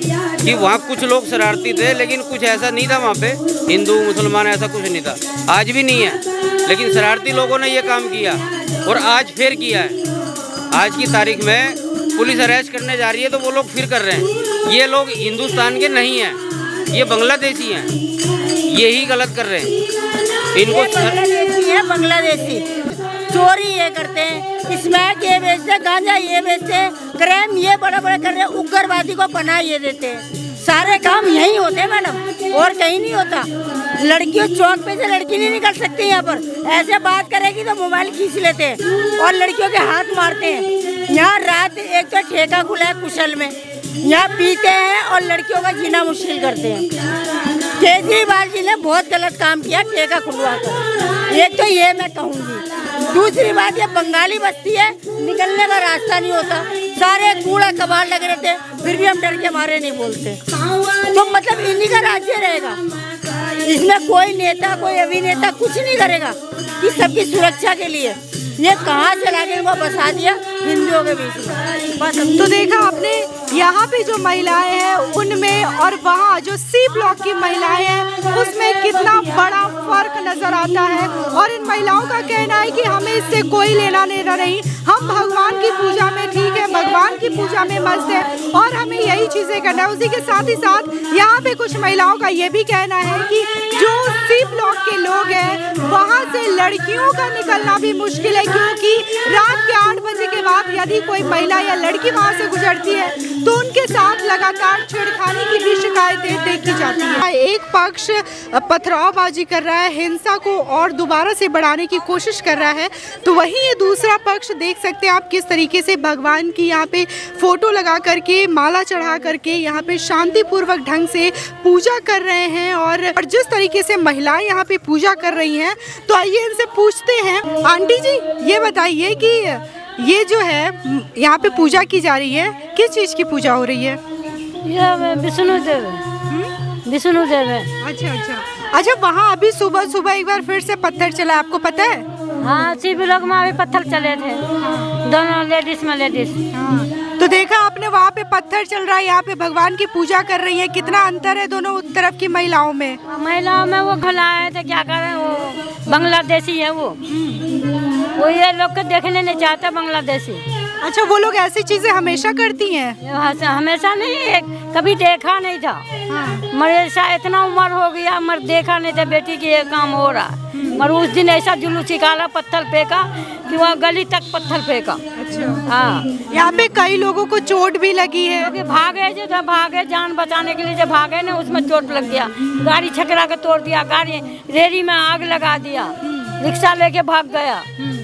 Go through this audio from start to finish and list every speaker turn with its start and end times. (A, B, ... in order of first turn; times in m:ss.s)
0:00.4-0:10.0 A
0:10.7-0:16.4 A
0:16.9-0:17.9 A
0:18.7-0:19.8 A
0:20.5-0:21.2 A
0:20.6-0:22.7 B
0:23.3-0:46.9 B
0:47.8-1:02.8 B
1:03.6-1:12.4 B
1:12.4-2:14.0 C
2:14.6-2:16.0 D
2:16.3-2:16.5 C
2:16.8-2:17.7 D
2:17.8-2:22.1 C
2:22.4-2:24.4 D
2:24.6-2:24.9 C
2:25.0-2:26.4 D
2:26.5-2:33.0 C
2:33.1-2:37.0 D
2:37.1-2:37.5 C
2:38.2-2:40.4 D
2:40.8-2:43.0 C
2:43.0-2:45.8 D
2:46.1-2:46.5 C
2:46.5-2:55.0 D
2:50.6-2:50.8 C
2:55.2-2:55.6 C
2:55.7-2:56.2 D
2:56.3-2:58.5 C
2:58.4-3:07.7 D